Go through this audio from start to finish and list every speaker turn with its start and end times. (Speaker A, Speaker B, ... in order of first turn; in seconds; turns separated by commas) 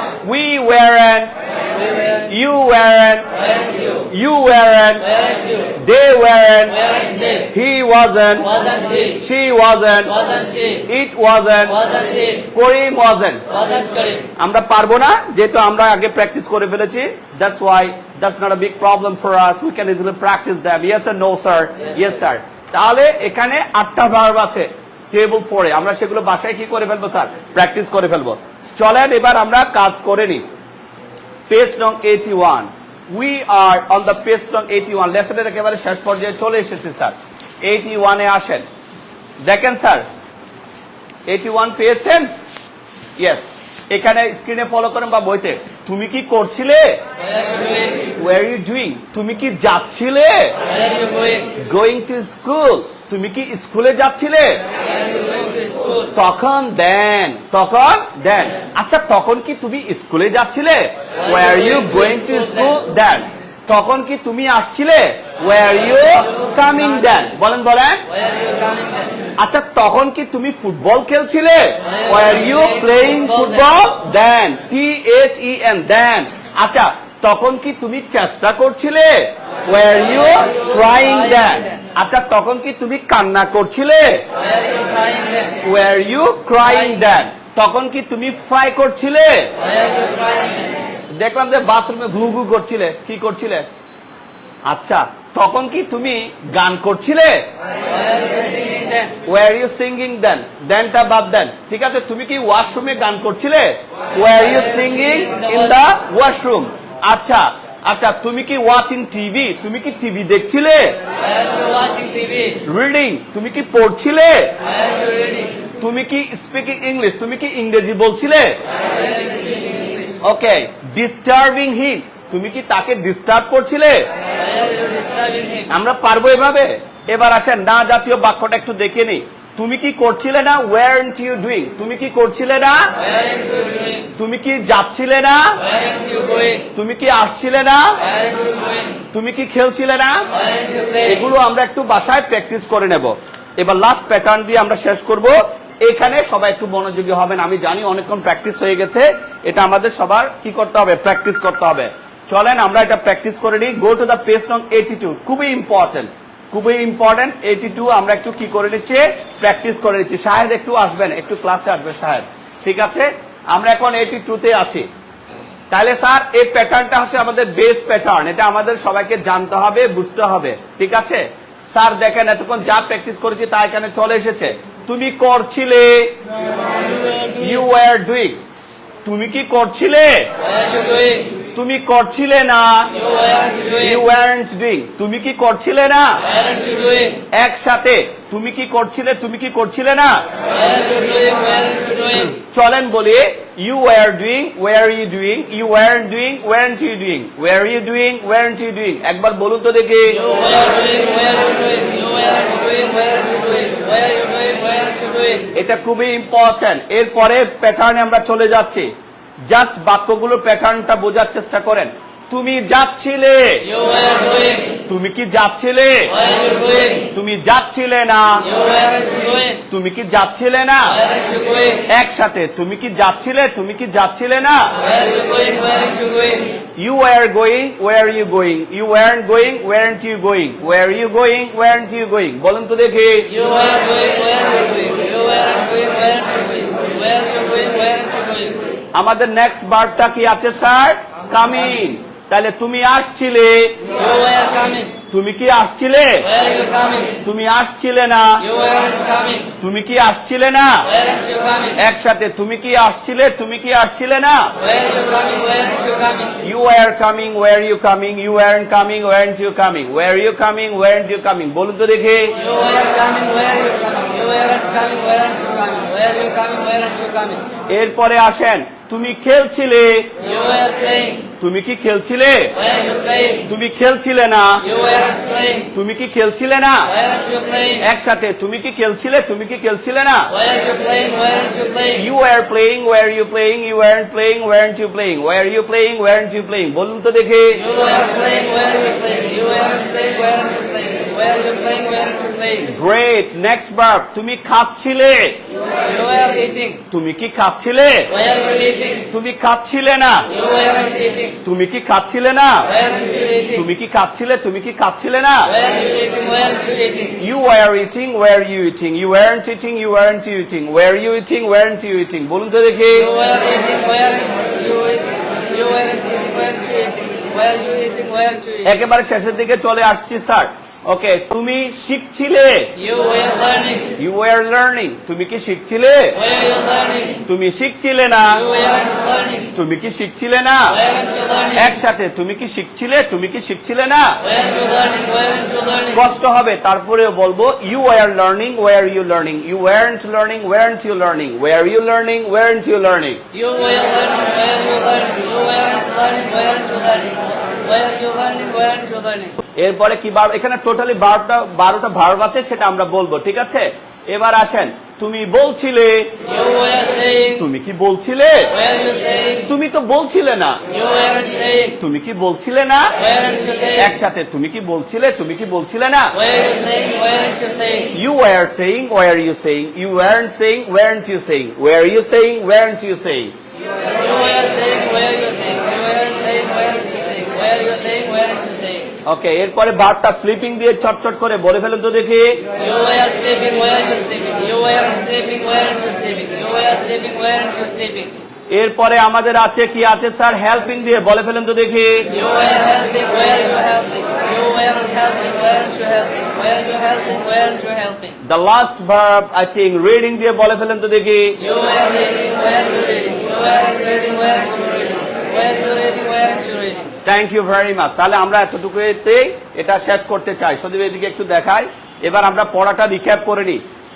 Speaker A: 0.2-1.3, Speaker B: 1.7-2.3, Speaker A: 2.3-3.3, Speaker B: 3.4-4.0, Speaker A: 4.0-5.1, Speaker B: 5.0-5.7, Speaker A: 5.7-6.8, Speaker B: 6.7-7.5, Speaker A: 7.5-8.5, Speaker B: 8.4-9.2, Speaker A: 9.1-10.2, Speaker B: 10.1-10.8, Speaker A: 10.8-11.8, Speaker B: 11.7-12.5, Speaker A: 12.5-13.4, Speaker B: 13.5-14.3, Speaker A: 14.3-30.4, Speaker A: 31.5-38.6, Speaker A: 39.4-40.0, Speaker A: 41.3-42.3, Speaker A: 43.2-47.0, Speaker B: 47.2-48.1, Speaker A: 48.1-50.5, Speaker B: 50.6-51.5, Speaker A: 51.5-54.6, Speaker B: 54.8-56.1, Speaker A: 56.1-68.0, Speaker B: 61.2-62.7, Speaker B: 68.1-69.2, Speaker A: 69.4-84.2, Speaker B: 71.9-73.7, Speaker B: 80.2-81.7, Speaker B: 84.3-85.6, Speaker A: 85.6-89.5, Speaker B: 89.6-90.8, Speaker A: 91.1-93.7, Speaker A: 94.7-97.5, Speaker B: 97.8-99.1, Speaker A: 99.2-111.0, Speaker B: 104.5-105.7, Speaker B: 111.2-112.6, Speaker A: 112.6-114.5, Speaker B: 114.6-115.5, Speaker A: 115.8-118.6, Speaker B: 118.8-120.2, Speaker A: 120.2-124.1, Speaker B: 124.3-125.7, Speaker A: 125.7-132.9, Speaker B: 133.0-134.1, Speaker A: 134.2-135.6, Speaker B: 135.6-136.7, Speaker A: 136.7-138.0, Speaker B: 138.0-139.0, Speaker A: 139.1-140.3, Speaker B: 140.3-141.2, Speaker A: 141.1-164.9, Speaker A: 165.7-176.2, Speaker B: 176.7-177.4, Speaker A: 177.3-178.4, Speaker A: 179.0-180.3, Speaker B: 180.4-181.3, Speaker A: 181.5-182.9, Speaker B: 182.9-184.0, Speaker A: 183.8-186.2, Speaker B: 186.2-187.2, Speaker A: 187.3-190.3, Speaker B: 190.4-192.3, Speaker A: 192.2-200.2, Speaker B: 200.2-205.5, Speaker A: 205.5-208.9, Speaker A: 209.5-213.7, Speaker B: 213.7-214.8, Speaker A: 214.8-216.1, Speaker B: 216.1-217.1, Speaker A: 217.1-218.5, Speaker B: 218.4-219.6, Speaker A: 219.7-221.0, Speaker B: 220.9-221.8, Speaker A: 221.9-224.7, Speaker B: 224.8-226.6, Speaker A: 226.8-233.3, Speaker B: 233.3-238.6, Speaker A: 238.9-243.9, Speaker B: 243.9-245.0, Speaker A: 245.1-246.3, Speaker B: 246.2-247.2, Speaker A: 247.2-248.4, Speaker B: 248.4-249.5, Speaker A: 249.6-250.9, Speaker B: 250.9-251.8, Speaker A: 251.8-254.5, Speaker B: 254.6-256.4, Speaker A: 256.4-262.4, Speaker B: 262.3-267.4, Speaker A: 267.7-270.1, Speaker B: 270.2-271.2, Speaker A: 271.4-272.6, Speaker B: 272.6-273.4, Speaker A: 273.4-274.6, Speaker B: 274.6-275.7, Speaker A: 275.7-276.9, Speaker B: 276.9-277.8, Speaker A: 277.8-280.3, Speaker B: 280.3-282.0, Speaker A: 281.9-287.6, Speaker B: 287.6-292.6, Speaker A: 292.6-295.4, Speaker B: 295.7-296.8, Speaker A: 296.9-298.1, Speaker B: 298.1-299.0, Speaker A: 299.1-300.3, Speaker B: 300.3-301.4, Speaker A: 301.4-302.7, Speaker B: 302.7-303.6, Speaker A: 303.5-305.5, Speaker B: 305.5-307.2, Speaker A: 307.2-313.1, Speaker B: 313.0-318.7, Speaker A: 318.6-322.8, Speaker B: 322.8-323.9, Speaker A: 323.9-326.2, Speaker B: 326.2-327.2, Speaker A: 327.2-328.4, Speaker B: 328.3-329.5, Speaker A: 329.5-330.8, Speaker B: 330.7-331.7, Speaker A: 331.5-334.2, Speaker B: 334.2-336.0, Speaker A: 335.9-343.2, Speaker B: 343.3-349.3, Speaker A: 349.6-356.2, Speaker B: 356.2-357.4, Speaker A: 357.3-358.5, Speaker B: 358.5-359.4, Speaker A: 359.4-360.6, Speaker B: 360.7-361.8, Speaker A: 361.8-363.0, Speaker B: 363.0-363.9, Speaker A: 363.7-366.1, Speaker B: 366.1-367.9, Speaker A: 367.9-373.3, Speaker B: 373.8-378.9, Speaker A: 379.1-382.5, Speaker B: 382.6-388.1, Speaker A: 388.5-392.1, Speaker B: 392.1-398.1, Speaker A: 398.2-401.4, Speaker B: 401.4-406.9, Speaker A: 407.0-413.6